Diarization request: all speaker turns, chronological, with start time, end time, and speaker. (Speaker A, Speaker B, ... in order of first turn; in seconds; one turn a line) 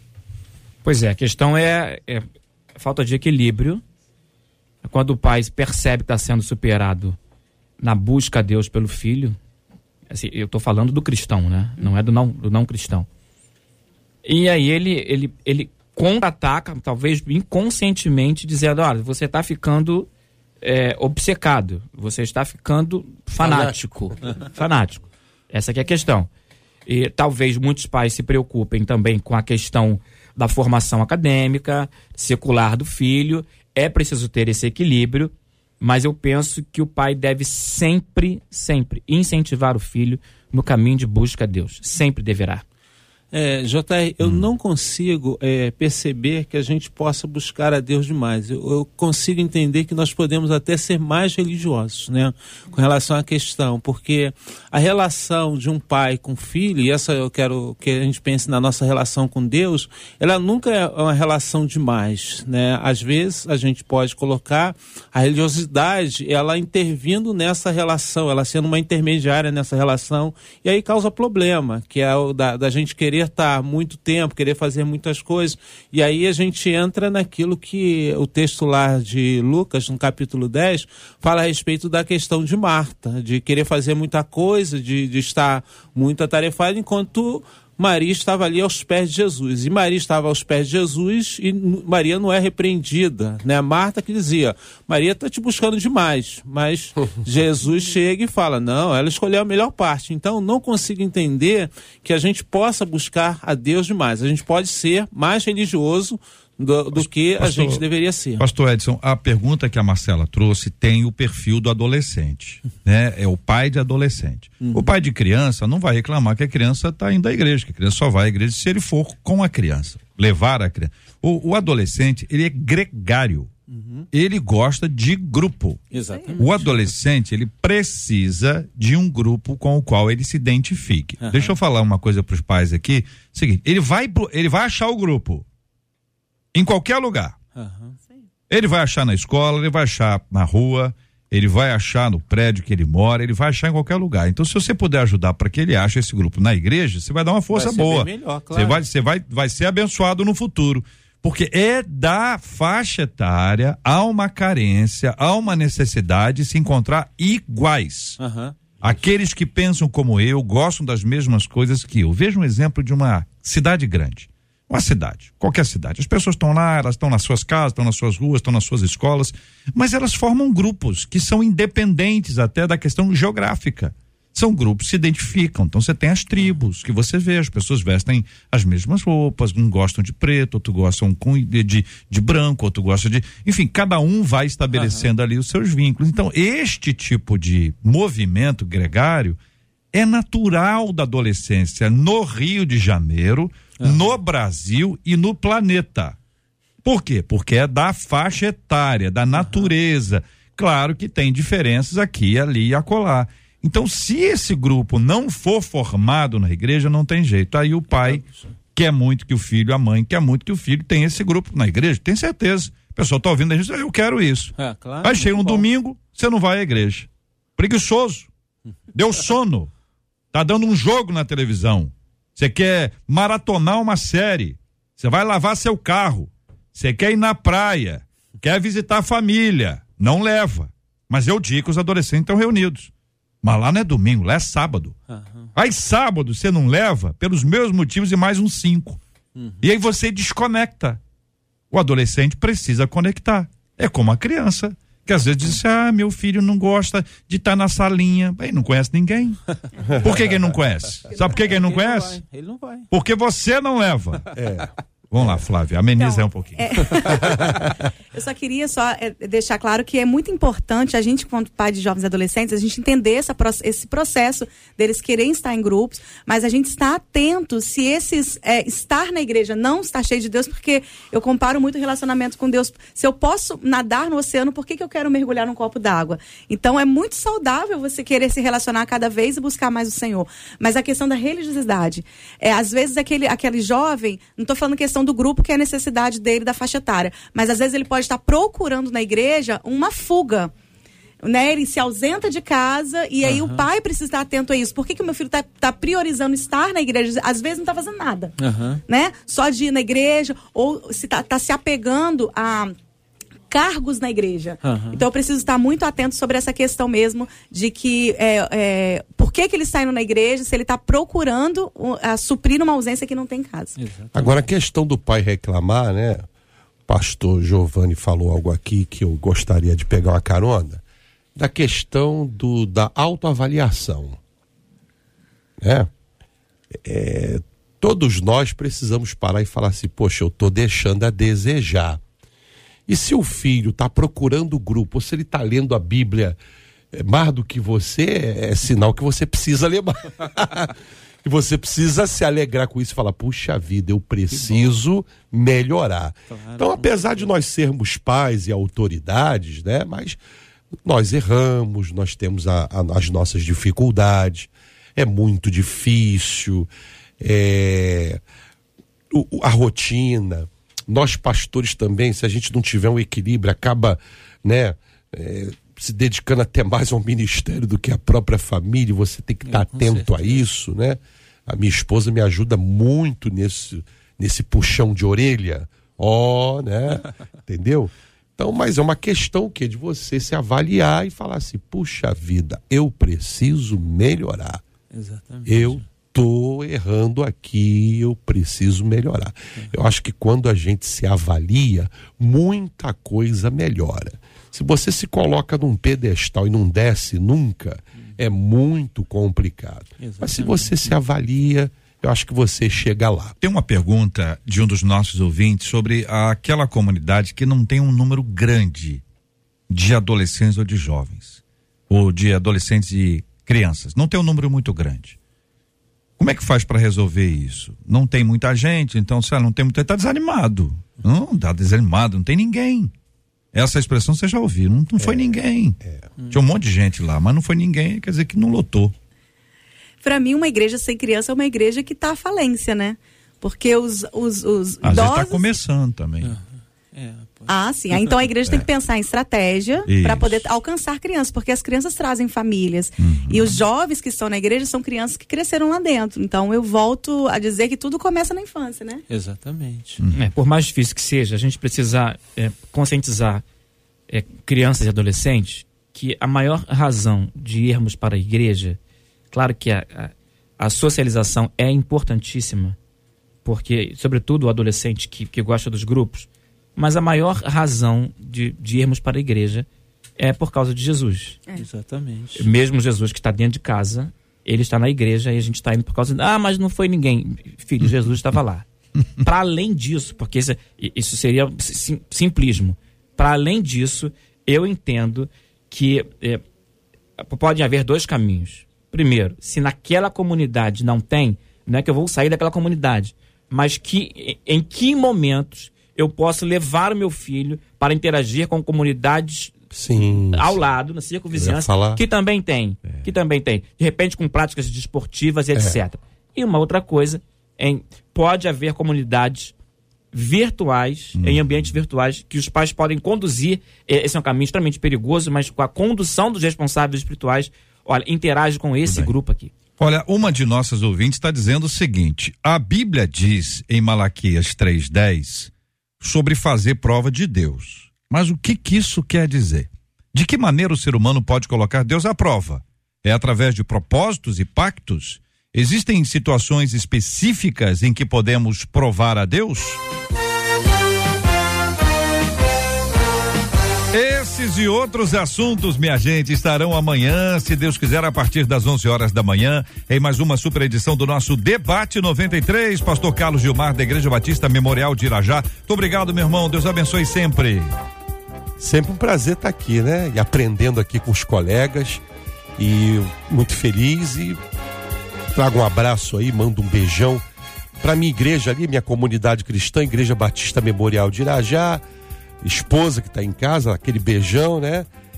Speaker A: 0.8-3.8
Speaker A: 4.8-7.2
Speaker A: 7.8-9.4
Speaker A: 10.1-13.1
Speaker A: 14.2-20.1
Speaker A: 20.6-26.3
Speaker B: 23.4-23.8
Speaker A: 26.9-42.6
Speaker C: 43.3-108.4
Speaker D: 106.9-107.8
Speaker D: 108.4-123.5
Speaker C: 114.6-114.9
Speaker C: 123.7-124.1
Speaker D: 124.1-125.8
Speaker C: 125.9-126.8
Speaker D: 126.3-135.4
Speaker C: 131.2-131.6
Speaker D: 136.5-137.4
Speaker C: 137.5-138.0
Speaker D: 138.5-158.2
Speaker C: 147.5-148.8
Speaker C: 158.2-158.9
Speaker D: 158.8-189.4
Speaker C: 184.7-185.1
Speaker D: 189.9-196.2
Speaker C: 193.8-194.1
Speaker D: 196.8-208.2
Speaker C: 199.3-199.7
Speaker C: 207.9-208.5
Speaker D: 208.7-218.3
Speaker C: 214.6-215.6
Speaker D: 218.9-219.7
Speaker D: 220.3-232.9
Speaker D: 233.4-234.9
Speaker C: 235.1-235.5
Speaker D: 235.5-239.0
Speaker C: 239.3-239.6
Speaker D: 239.6-241.0
Speaker D: 241.7-249.4
Speaker D: 250.0-252.2
Speaker C: 251.4-252.9
Speaker D: 252.9-254.2
Speaker B: 254.3-254.7
Speaker D: 255.1-257.2
Speaker E: 256.0-257.5
Speaker E: 258.1-290.5
Speaker E: 291.2-298.3
Speaker C: 293.2-293.6
Speaker C: 298.4-298.8
Speaker E: 298.9-302.7
Speaker E: 303.5-313.8
Speaker C: 304.6-305.0
Speaker C: 313.8-314.4
Speaker B: 314.1-316.3
Speaker B: 316.9-320.8
Speaker B: 321.4-324.2
Speaker B: 325.6-325.9
Speaker B: 326.7-332.0
Speaker B: 332.9-336.4
Speaker B: 336.9-350.2
Speaker C: 344.4-344.6
Speaker C: 346.3-347.3
Speaker B: 350.8-356.7
Speaker B: 357.2-358.2
Speaker B: 359.1-384.6
Speaker C: 369.4-370.4
Speaker C: 384.9-385.8
Speaker B: 385.4-403.4
Speaker C: 400.0-400.9
Speaker D: 403.4-409.0
Speaker D: 409.7-415.2
Speaker D: 416.2-422.9
Speaker D: 423.5-425.8
Speaker B: 425.0-426.0
Speaker D: 426.3-428.9
Speaker E: 430.0-435.5
Speaker D: 434.8-436.4
Speaker C: 436.2-437.5
Speaker E: 437.5-449.0
Speaker D: 439.9-440.4
Speaker D: 443.0-443.6
Speaker C: 449.1-450.0
Speaker D: 450.0-450.2
Speaker A: 450.1-453.4
Speaker A: 454.1-458.8
Speaker A: 459.3-462.8
Speaker A: 463.4-469.6
Speaker A: 470.2-471.4
Speaker C: 471.6-472.4
Speaker A: 472.4-478.6
Speaker A: 479.2-486.4
Speaker A: 487.2-499.6
Speaker B: 499.7-500.6
Speaker A: 500.2-509.5
Speaker B: 501.3-502.0
Speaker B: 505.5-505.8
Speaker A: 510.1-519.5
Speaker D: 511.2-511.7
Speaker D: 518.9-519.1
Speaker D: 519.8-539.8
Speaker D: 543.9-557.7
Speaker B: 558.6-562.0
Speaker B: 562.6-564.4
Speaker B: 565.3-567.2
Speaker B: 567.8-571.8
Speaker B: 572.4-574.9